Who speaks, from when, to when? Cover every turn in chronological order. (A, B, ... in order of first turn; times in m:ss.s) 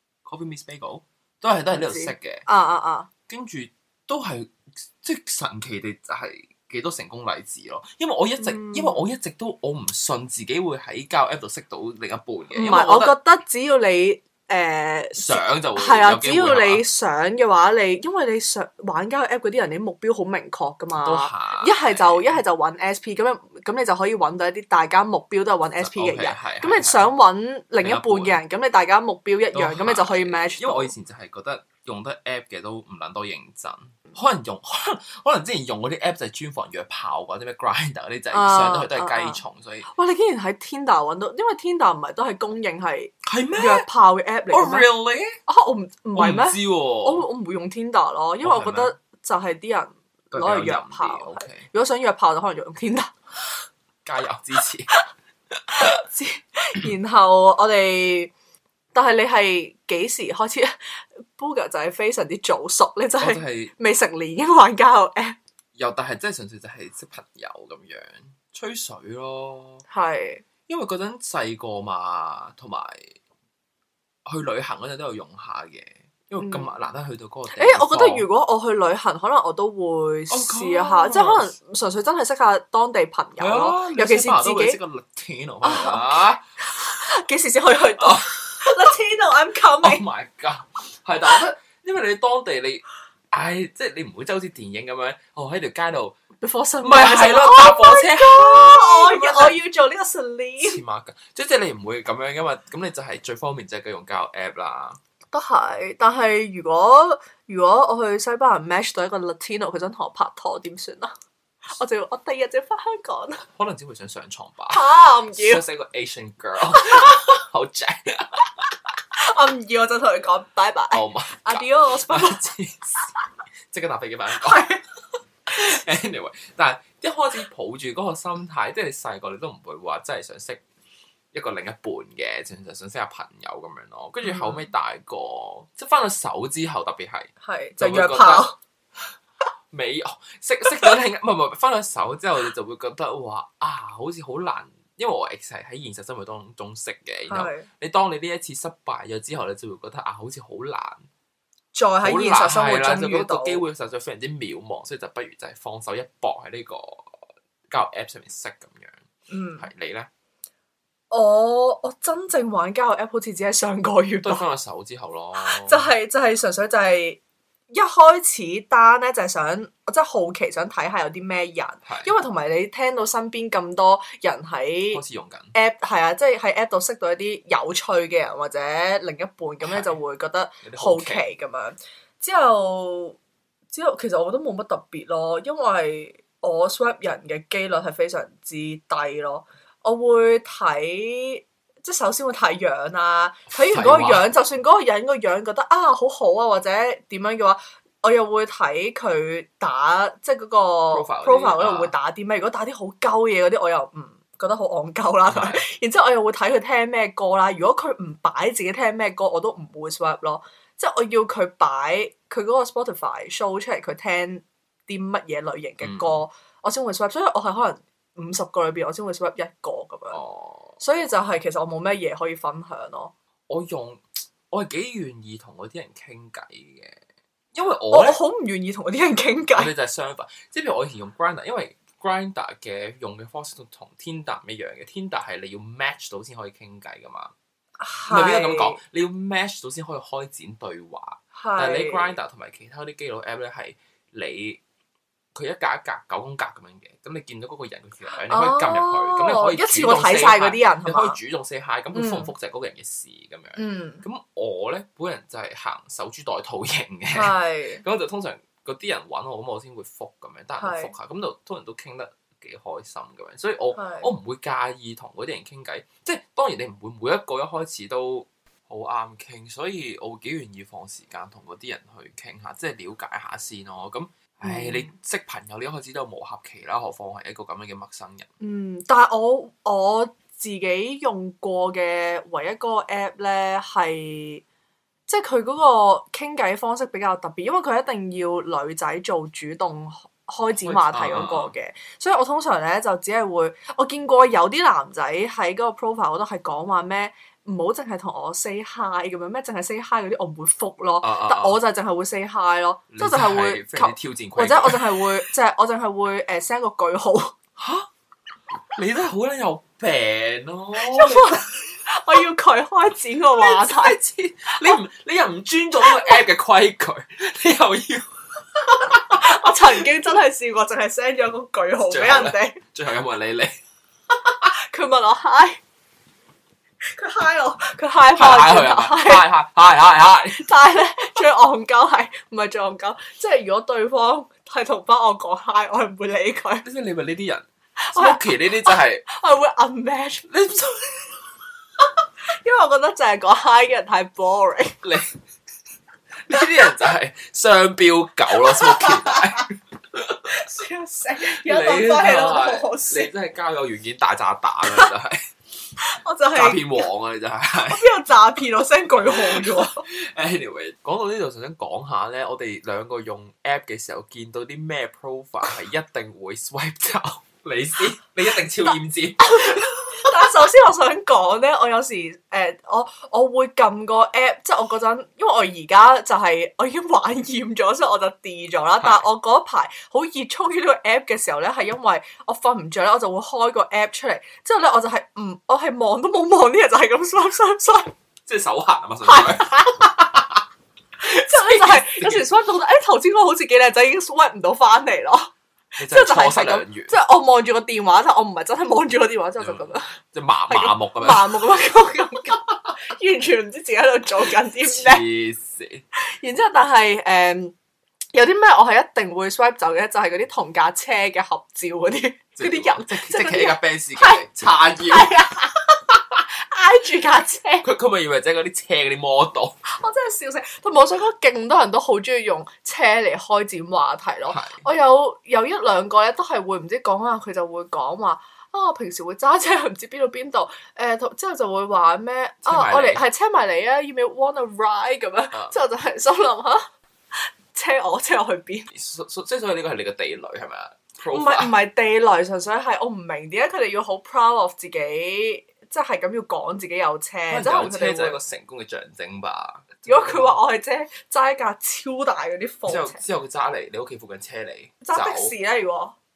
0:00.2-0:02.4 A
0:01.7-0:03.1 B
0:03.3-0:13.1 A
0:08.4-0:09.0 B
0:12.5-0:30.9 B
0:15.1-0:16.8 A
0:21.0-0:22.3 A
0:25.8-0:27.1 A
0:27.8-0:28.4 A
0:29.5-0:39.9 A
0:38.3-0:44.9 B
0:43.2-0:43.9 A
0:44.5-0:45.4 A
0:45.4-0:53.1 B
0:46.1-0:47.2 A
0:48.4-0:48.9 A
0:50.3-0:51.6 A
0:54.0-0:54.9 A
0:55.8-0:58.3 B
0:58.9-1:05.4 B
1:03.2-1:03.7 A
1:05.8-1:09.8 A
1:09.9-1:10.4 B
1:10.7-1:13.1 A
1:14.2-1:18.2 A
1:16.4-1:16.7 B
1:17.5-1:24.8 B
1:20.3-1:21.5 A
1:23.4-1:26.4 A
1:25.6-1:30.0 B
1:28.0-1:28.7 A
1:29.8-1:36.2 A
1:36.4-1:40.8 B
1:36.8-1:39.5 A
1:40.6-1:45.0 A
1:45.3-1:51.1 B
1:51.7-1:53.4 B
1:53.6-1:58.7 A
1:54.7-1:55.6 B
1:59.1-2:02.4 B
2:00.9-2:03.1 A
2:03.7-2:04.8 A
2:04.4-2:04.8 B
2:05.5-2:10.6 A
2:11.3-2:18.5 A
2:14.2-2:14.6 B
2:17.4-2:18.6 B
2:19.7-2:31.0 A
2:27.3-2:27.7 B
2:31.7-2:33.6 B
2:32.0-2:37.2 A
2:37.7-2:39.0 A
2:39.3-2:39.6 B
2:39.6-2:40.1 A
2:41.1-2:44.5 B
2:44.2-2:45.9 A
2:45.4-2:47.2 B
2:47.7-2:55.0 B
2:51.8-2:52.1 A
2:54.9-2:55.5 A
2:55.5-3:03.2 B
2:59.6-2:59.9 A
3:00.6-3:01.2 A
3:03.7-3:40.2 B
3:13.5-3:14.3 A
3:20.9-3:21.9 A
3:25.3-3:25.6 A
3:35.8-3:36.2 A
3:40.1-3:40.8 A
3:40.8-3:43.1 B
3:43.5-3:47.0 A
3:47.5-3:48.2 A
3:47.9-3:49.7 B
3:49.5-3:57.3 A
3:57.8-3:58.8 B
3:58.1-4:04.6 A
4:01.3-4:02.2 B
4:05.3-4:38.3 A
4:08.1-4:11.2 B
4:11.9-4:12.3 B
4:13.6-4:14.0 B
4:17.1-4:17.8 B
4:20.6-4:20.9 B
4:23.7-4:24.1 B
4:34.4-4:34.9 B
4:38.4-4:44.4 B
4:45.1-5:07.3 B
4:50.6-4:51.5 A
5:01.0-5:01.6 A
5:02.9-5:05.0 A
5:07.6-5:07.9 A
5:08.7-5:11.5 A
5:10.7-5:14.0 B
5:13.3-5:19.8 A
5:18.8-5:22.6 B
5:21.9-5:23.6 A
5:24.3-5:25.6 B
5:26.8-5:29.3 B
5:28.1-5:30.5 A
5:30.3-5:36.6 B
5:36.6-5:39.0 A
5:37.8-5:40.3 B
5:40.3-5:41.2 A
5:42.3-5:44.8 B
5:44.8-5:45.1 A
5:46.2-5:50.3 A
5:48.5-5:49.5 B
5:50.3-5:53.1 B
5:51.3-5:55.2 A
5:55.8-5:56.9 B
5:56.3-5:57.9 A
5:57.7-5:59.8 B
5:58.9-6:10.1 A
6:09.2-6:27.9 B
6:28.3-6:30.4 A
6:29.0-6:29.8 B
6:31.0-6:40.0 B
6:31.1-6:32.3 A
6:35.8-6:36.9 A
6:39.4-6:41.5 A
6:40.5-6:45.0 B
6:44.6-6:45.8 A
6:46.0-6:47.5 B
6:48.1-6:54.3 B
6:52.4-6:55.2 A
6:54.8-6:57.6 B
6:57.6-6:59.6 A
6:59.6-7:18.7 B
7:04.3-7:04.6 A
7:12.4-7:13.0 A
7:18.7-7:21.5 A
7:21.1-7:28.2 B
7:27.3-7:30.4 A
7:29.8-7:33.0 B
7:32.7-7:35.3 A
7:34.8-7:35.9 B